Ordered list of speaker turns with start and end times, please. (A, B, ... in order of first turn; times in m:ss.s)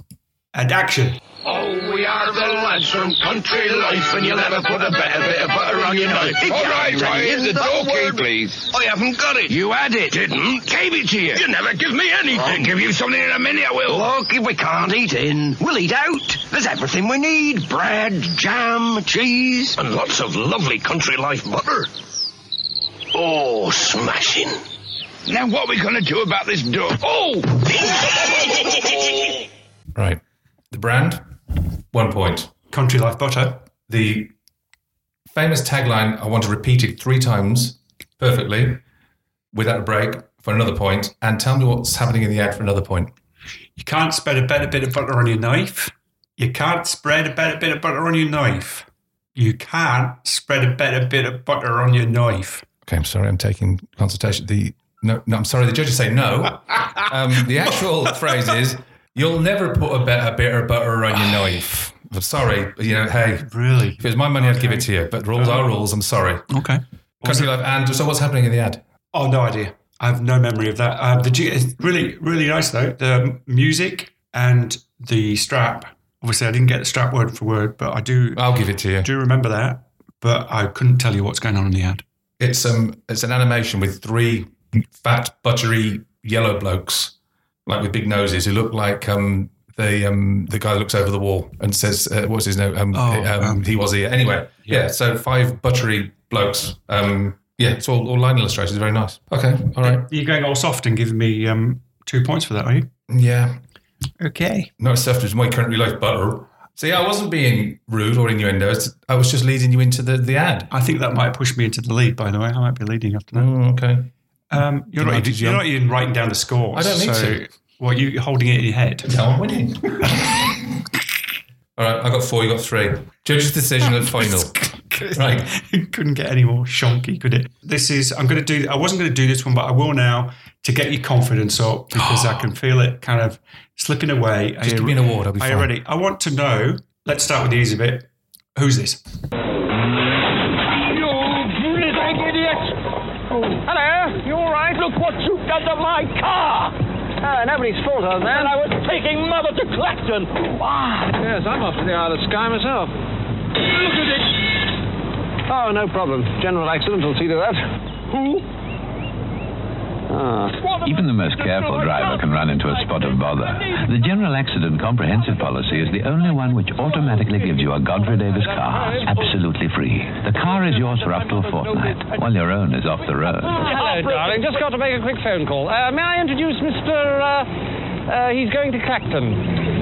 0:00.5-0:01.2 A
0:01.4-0:21.9 B
0:23.1-0:24.6 B
0:25.2-0:29.4 B
0:29.9-0:31.2 C
0:31.9-0:32.5 C
0:32.7-0:33.6 A
0:33.9-0:34.3 C
0:35.3-0:38.8 C
0:39.5-0:43.1 C
0:43.8-0:52.6 A
0:52.8-1:06.5 C
1:03.5-1:05.7 A
1:06.5-1:07.5 A
1:07.2-1:08.8 C
1:09.1-1:18.4 A
1:18.3-1:19.1 C
1:19.0-1:22.0 A
1:22.4-1:27.1 C
1:27.6-1:40.0 C
1:32.9-1:33.7 A
1:39.8-1:42.9 A
1:43.1-1:43.6 C
1:44.2-1:44.7 A
1:44.8-1:50.7 C
1:50.7-1:53.5 A
1:53.3-1:54.1 C
1:54.5-1:59.1 A
1:55.0-1:55.6 C
1:56.7-1:57.4 C
1:59.0-2:00.7 C
2:01.8-2:04.6 C
2:03.8-2:19.0 A
2:05.1-2:05.5 C
2:11.9-2:12.4 C
2:14.6-2:15.7 C
2:20.8-2:22.8 D
2:23.3-2:33.0 D
2:33.8-2:34.2 D
2:35.5-2:38.4 D
2:40.1-2:40.7 D
2:40.8-2:53.6 E
2:53.6-2:57.5 D
2:58.1-2:59.5 D